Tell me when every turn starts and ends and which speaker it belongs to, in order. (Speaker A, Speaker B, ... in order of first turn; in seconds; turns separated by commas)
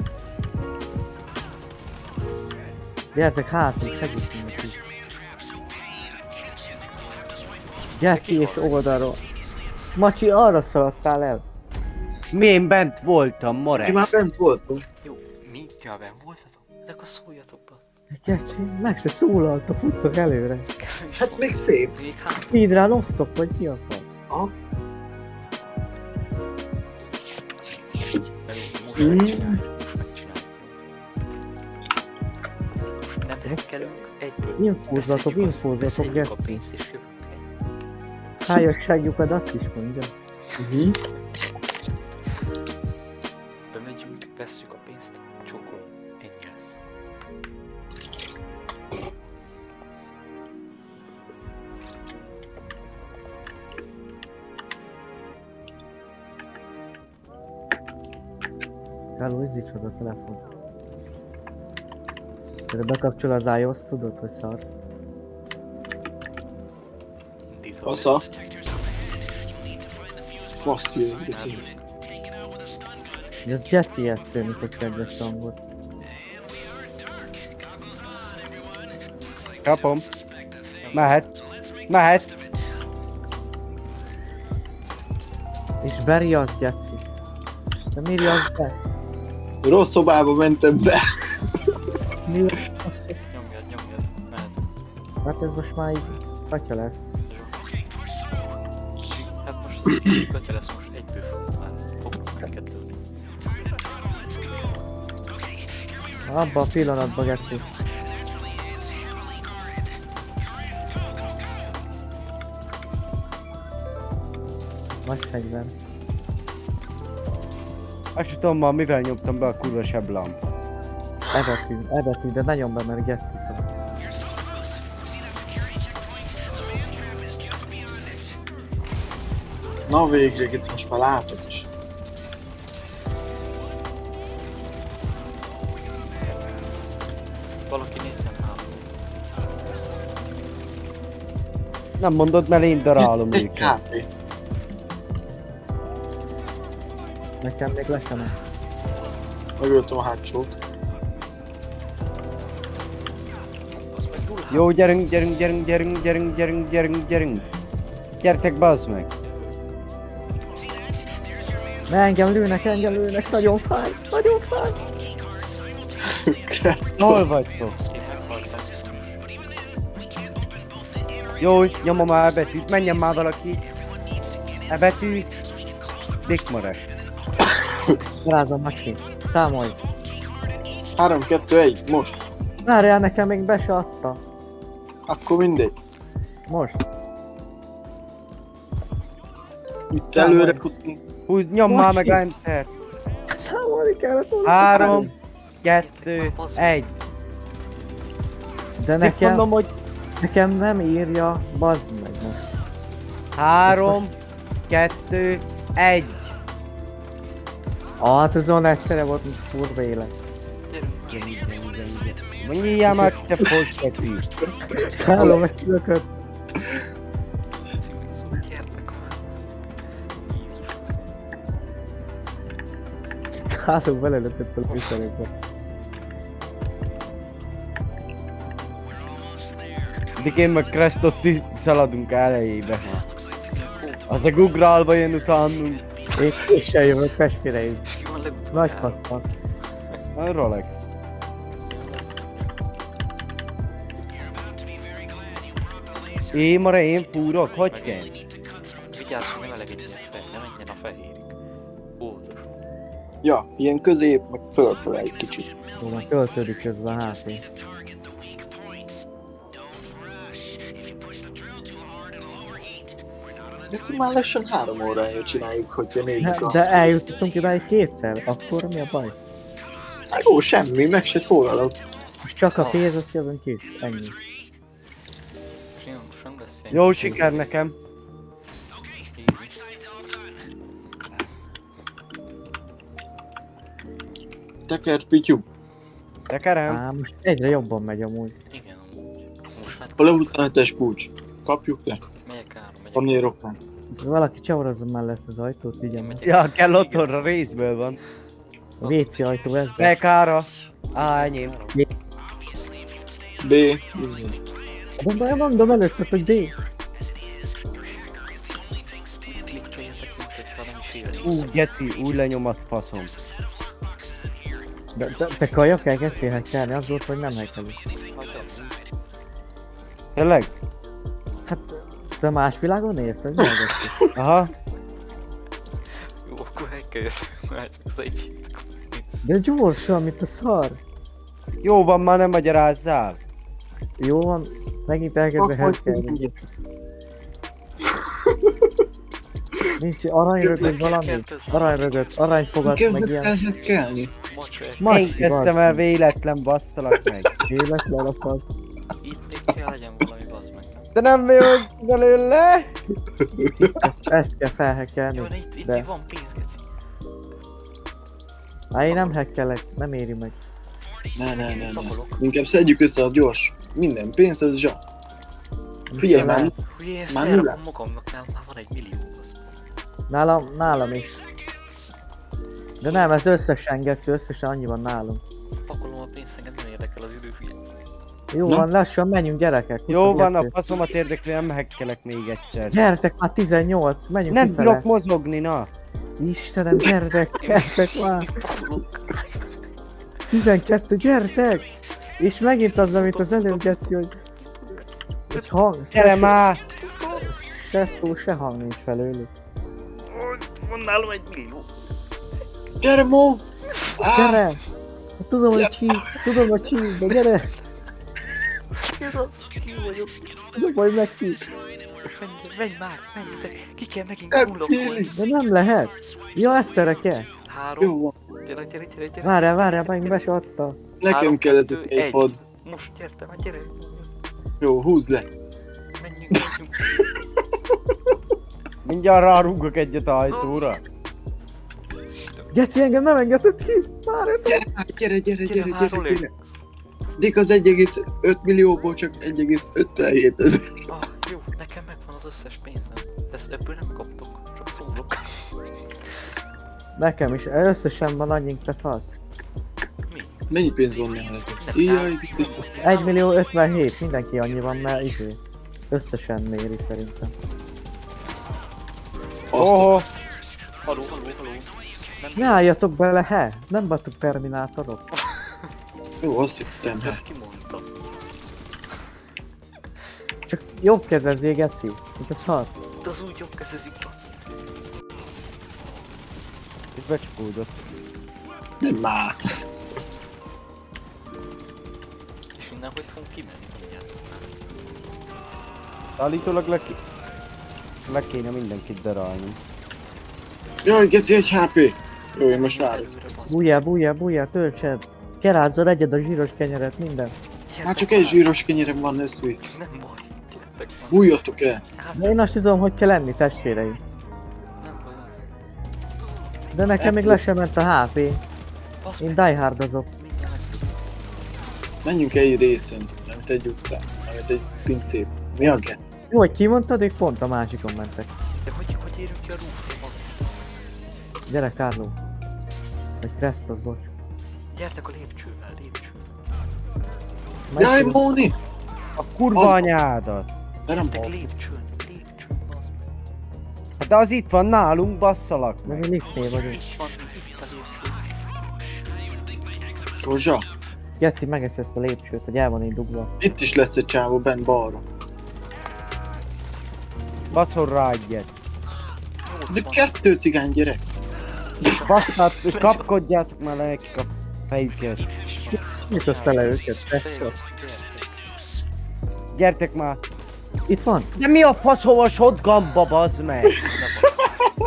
Speaker A: 3.1-4.8, Speaker B: 8.0-8.8, Speaker A: 8.0-9.2, Speaker A: 9.9-11.4, Speaker C: 12.3-14.1, Speaker D: 13.8-14.9, Speaker B: 15.0-17.8, Speaker A: 18.1-20.7, Speaker B: 20.8-22.6, Speaker D: 21.2-21.9, Speaker A: 22.4-24.2, Speaker B: 28.4-30.8, Speaker D: 29.0-29.6, Speaker B: 33.0-37.5, Speaker A: 33.5-33.7, Speaker A: 34.6-36.6, Speaker A: 38.4-40.1, Speaker D: 40.6-41.0, Speaker B: 43.7-46.8, Speaker A: 59.2-60.4, Speaker A: 62.7-64.6, Speaker B: 67.5-68.3, Speaker D: 67.9-68.2, Speaker D: 70.5-71.7, Speaker B: 71.3-71.8, Speaker A: 73.5-75.5, Speaker C: 79.6-80.0, Speaker B: 79.7-80.1, Speaker B: 80.8-81.3, Speaker C: 80.9-81.3, Speaker C: 81.9-82.5, Speaker A: 85.8-87.0, Speaker A: 88.0-88.7, Speaker D: 89.6-91.0, Speaker A: 92.3-93.2, Speaker B: 93.3-94.7, Speaker A: 95.2-97.0, Speaker B: 97.3-97.7, Speaker B: 99.1-103.0, Speaker A: 106.3-107.6, Speaker A: 115.0-115.7, Speaker C: 118.2-120.4, Speaker A: 121.3-123.7, Speaker D: 129.9-131.7, Speaker B: 136.2-136.9, Speaker B: 137.7-138.9, Speaker C: 142.0-143.8, Speaker D: 143.0-144.1, Speaker A: 147.4-148.3, Speaker D: 149.6-150.5, Speaker B: 153.7-154.7, Speaker C: 154.5-157.4, Speaker C: 158.2-159.1, Speaker B: 159.2-159.6, Speaker A: 161.9-164.9, Speaker D: 166.1-167.3, Speaker C: 167.0-167.8, Speaker B: 167.8-169.3, Speaker C: 171.4-173.6, Speaker C: 174.7-175.3, Speaker C: 176.2-176.8, Speaker D: 177.6-178.0, Speaker A: 178.2-179.8, Speaker D: 181.0-182.2, Speaker A: 182.6-184.2, Speaker D: 185.1-185.7, Speaker A: 186.5-186.8, Speaker D: 189.9-191.0, Speaker A: 190.1-190.6, Speaker C: 191.3-192.7, Speaker A: 191.7-192.2, Speaker A: 193.3-195.1, Speaker C: 194.4-195.1, Speaker D: 194.7-195.1, Speaker C: 195.6-196.9, Speaker B: 195.8-196.9, Speaker A: 198.8-199.5, Speaker C: 199.0-199.7, Speaker A: 200.2-202.4, Speaker C: 203.4-204.1, Speaker A: 203.6-204.0, Speaker C: 204.7-206.3, Speaker A: 208.0-210.1, Speaker B: 210.7-211.4, Speaker C: 211.1-214.2, Speaker A: 212.9-213.1, Speaker B: 214.7-215.4, Speaker D: 214.7-215.4, Speaker A: 214.9-216.1, Speaker B: 217.7-221.3, Speaker A: 223.5-225.3, Speaker B: 224.7-225.7, Speaker C: 230.2-233.0, Speaker B: 232.8-234.4, Speaker C: 234.1-235.8, Speaker A: 236.2-237.8, Speaker B: 237.8-239.0, Speaker A: 238.5-239.2, Speaker C: 240.2-240.8, Speaker B: 241.7-242.5, Speaker C: 246.3-248.1, Speaker B: 247.7-248.1, Speaker B: 248.9-251.3, Speaker B: 252.0-252.5, Speaker D: 253.2-255.5, Speaker A: 255.8-257.4, Speaker D: 263.7-266.9, Speaker A: 266.2-269.1, Speaker D: 270.1-271.8, Speaker A: 272.2-274.1, Speaker B: 272.5-273.0, Speaker B: 275.8-277.5, Speaker C: 276.7-277.8, Speaker B: 279.1-279.6, Speaker D: 284.7-285.4, Speaker C: 286.3-286.8, Speaker A: 286.7-288.4, Speaker B: 288.5-290.5, Speaker D: 290.0-292.0, Speaker B: 292.2-293.4, Speaker D: 292.9-293.6, Speaker A: 293.9-296.2, Speaker B: 295.9-297.2, Speaker C: 296.2-298.0, Speaker B: 298.8-299.1, Speaker A: 298.8-299.9, Speaker C: 299.8-301.6, Speaker B: 300.9-301.8, Speaker D: 303.4-304.4, Speaker A: 305.0-306.5, Speaker B: 309.3-311.6, Speaker C: 311.2-313.1, Speaker A: 315.0-317.8, Speaker B: 318.1-318.8, Speaker C: 320.1-320.5, Speaker A: 321.5-323.9, Speaker C: 324.1-324.5, Speaker B: 325.9-329.3, Speaker A: 329.2-330.8, Speaker C: 331.6-333.2, Speaker A: 334.0-336.2, Speaker D: 335.4-336.5, Speaker A: 339.8-343.3, Speaker D: 340.4-340.7, Speaker B: 340.6-342.3, Speaker D: 342.6-344.1, Speaker B: 344.3-345.4, Speaker A: 344.8-345.8, Speaker C: 344.9-347.3, Speaker A: 347.5-348.5, Speaker B: 349.0-350.9, Speaker C: 350.9-352.7, Speaker D: 353.4-353.7, Speaker A: 353.6-355.9, Speaker B: 355.1-356.6, Speaker A: 358.7-360.3, Speaker B: 358.9-359.1, Speaker D: 361.1-364.8, Speaker B: 361.4-362.3, Speaker A: 365.9-366.5, Speaker D: 366.0-366.5, Speaker B: 366.6-369.6, Speaker D: 367.1-367.6, Speaker A: 370.1-371.1, Speaker A: 372.8-375.2, Speaker B: 375.6-377.6, Speaker A: 378.3-380.5, Speaker C: 379.9-382.8, Speaker A: 382.7-384.9, Speaker C: 384.3-385.7, Speaker A: 386.2-388.3, Speaker B: 387.4-389.6, Speaker A: 390.3-391.6, Speaker A: 392.2-394.1, Speaker B: 392.9-393.9, Speaker B: 394.4-395.4, Speaker A: 395.3-396.4, Speaker C: 395.9-396.6, Speaker A: 397.1-399.3, Speaker B: 400.1-401.6, Speaker D: 402.8-403.4, Speaker D: 404.0-404.4, Speaker A: 404.1-404.6, Speaker A: 405.2-407.5, Speaker D: 405.5-406.3, Speaker B: 408.8-410.5, Speaker A: 410.5-411.4, Speaker B: 412.0-415.2, Speaker D: 414.3-415.1, Speaker A: 415.1-417.3, Speaker B: 417.5-420.2, Speaker D: 417.8-418.1, Speaker A: 419.2-420.8, Speaker D: 421.0-422.4, Speaker B: 421.0-424.1, Speaker D: 424.6-425.3, Speaker B: 426.0-427.1, Speaker C: 428.8-430.8, Speaker B: 430.3-430.8, Speaker B: 432.0-432.5, Speaker A: 432.5-434.6, Speaker D: 434.5-436.3, Speaker B: 435.4-436.6, Speaker D: 437.2-440.8, Speaker B: 440.9-446.2, Speaker A: 447.0-449.2, Speaker B: 450.1-450.5, Speaker D: 450.5-452.7, Speaker B: 451.6-453.2, Speaker A: 452.8-455.4, Speaker A: 455.9-457.3, Speaker D: 459.5-459.9, Speaker C: 459.5-460.1, Speaker B: 460.8-462.7, Speaker A: 462.4-465.0, Speaker B: 465.1-465.7, Speaker D: 466.2-467.2, Speaker B: 466.7-468.1, Speaker A: 470.5-472.7, Speaker B: 473.0-474.4, Speaker C: 477.0-477.7, Speaker D: 478.8-479.4, Speaker B: 482.6-484.8, Speaker C: 486.2-487.0, Speaker C: 488.1-489.6, Speaker D: 490.8-493.1, Speaker B: 492.5-493.9, Speaker A: 493.5-497.3, Speaker B: 497.7-498.5, Speaker D: 497.8-499.7, Speaker B: 499.7-501.4, Speaker D: 501.1-501.8, Speaker B: 501.9-502.4, Speaker A: 502.2-504.0, Speaker B: 504.8-505.4, Speaker A: 506.7-508.4, Speaker D: 507.0-507.4, Speaker B: 509.0-509.6, Speaker A: 509.2-510.1, Speaker B: 510.2-511.3, Speaker D: 512.0-516.0, Speaker A: 516.3-518.3, Speaker B: 518.6-520.9, Speaker A: 521.5-522.1, Speaker A: 523.2-524.1, Speaker B: 524.7-526.3, Speaker A: 527.7-528.2, Speaker D: 527.8-528.5, Speaker C: 529.2-530.5, Speaker D: 529.5-529.9, Speaker D: 530.9-531.3, Speaker B: 530.9-533.1, Speaker C: 534.0-535.8, Speaker A: 535.8-536.8, Speaker B: 536.5-539.1, Speaker D: 540.2-540.6, Speaker A: 541.2-543.3, Speaker D: 543.4-545.0, Speaker C: 547.5-548.5, Speaker B: 549.5-550.2, Speaker D: 549.7-551.0, Speaker B: 551.8-553.0, Speaker C: 551.8-555.2, Speaker B: 555.2-558.5, Speaker A: 555.7-557.5, Speaker C: 559.5-560.2, Speaker A: 560.9-561.3, Speaker C: 561.4-563.8, Speaker B: 563.8-564.7